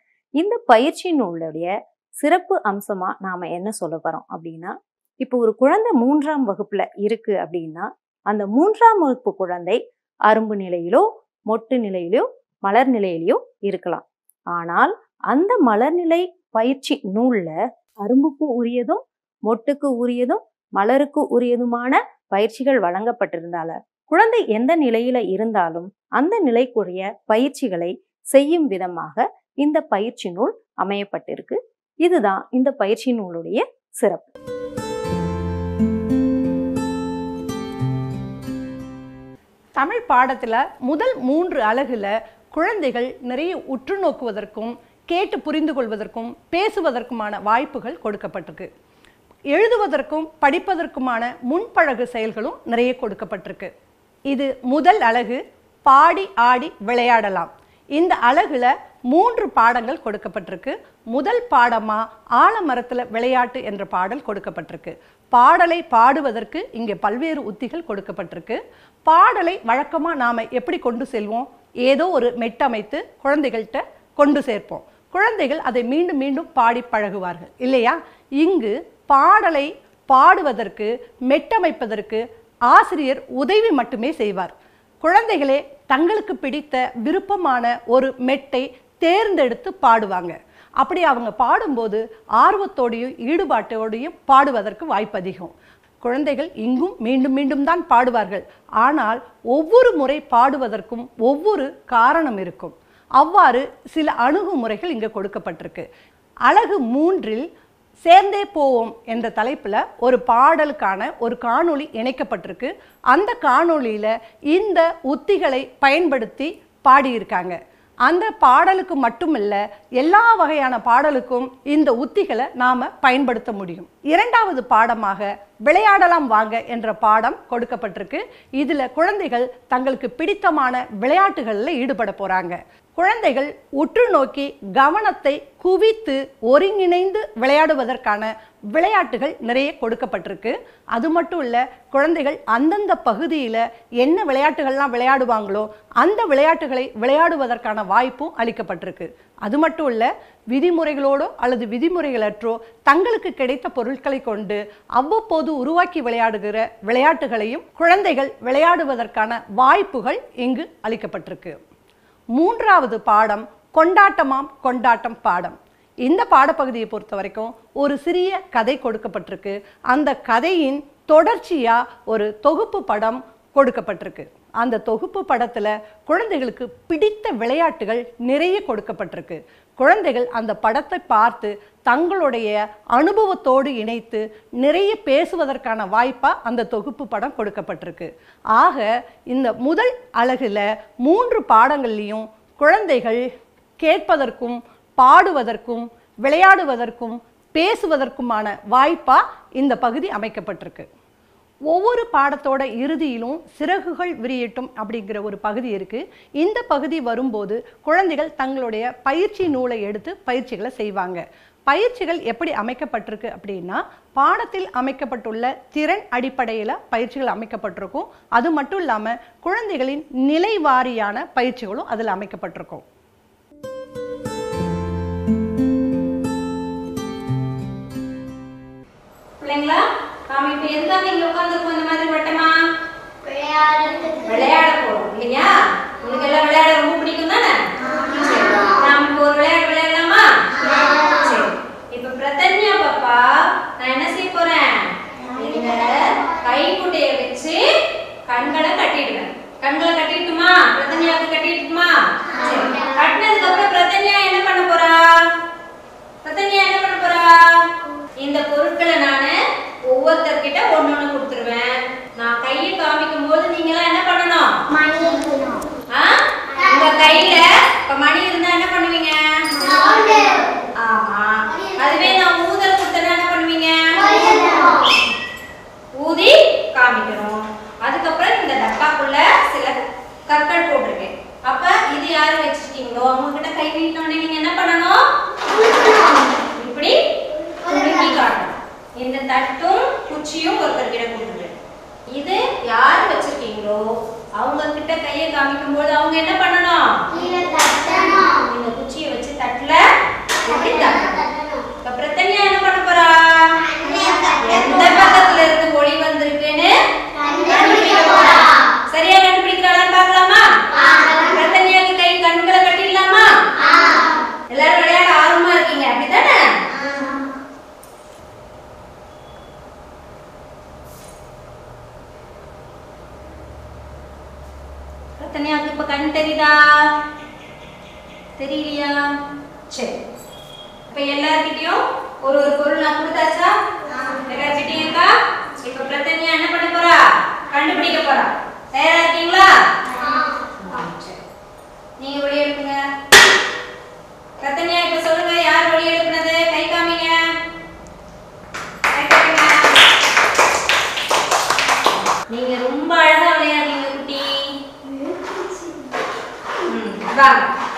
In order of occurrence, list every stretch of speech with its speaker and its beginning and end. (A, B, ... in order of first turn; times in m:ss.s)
0:00.4-0:34.3 A
0:39.8-0:48.7 B
0:49.5-0:53.7 B
0:54.3-1:45.8 B
1:46.5-1:47.4 B
1:48.0-2:41.6 B
2:42.4-3:13.2 B
3:13.8-3:20.9 B
3:21.7-3:42.8 B
3:49.4-3:52.5 C
3:53.2-3:54.5 D
3:54.2-3:57.6 C
3:57.8-3:58.8 D
3:58.1-4:03.2 C
4:00.6-4:01.5 D
4:03.8-4:07.6 C
4:05.4-4:06.0 D
4:08.3-4:15.1 C
4:12.4-4:12.9 D
4:16.2-4:17.6 C
4:18.2-4:19.3 C
4:19.9-4:24.5 C
4:24.7-4:25.7 D
4:25.9-4:29.6 C
4:26.5-4:27.3 D
4:29.5-4:30.5 D
4:30.8-4:34.2 C
4:31.5-4:32.1 D
4:33.9-4:35.0 D
4:36.0-4:39.7 C
4:40.3-4:45.0 C
4:45.5-4:46.2 D
4:46.6-4:47.0 C
4:47.6-4:51.5 C
4:47.7-4:48.2 D
4:52.1-4:53.8 C
4:54.4-4:57.0 C
4:57.1-4:58.4 D
4:58.4-4:59.8 C
5:00.4-5:01.2 C
5:00.5-5:01.6 D
5:01.8-5:03.6 C
5:03.7-5:05.3 D
5:04.4-5:06.7 C
5:07.1-5:08.5 D
5:07.4-5:13.3 C
5:10.7-5:11.4 D
5:13.6-5:14.3 D
5:14.5-5:16.4 C
5:16.7-5:17.3 D
5:25.2-5:26.8 C
5:28.4-5:29.0 C
5:30.9-5:33.5 C
5:33.9-5:34.3 D
5:34.3-5:39.5 C
5:39.9-5:40.7 D
5:40.6-5:41.2 C
5:42.0-5:42.8 C
5:44.4-5:47.2 C
5:48.9-5:49.7 C
5:52.3-5:54.5 C
5:54.8-5:56.0 D
5:56.6-5:57.5 C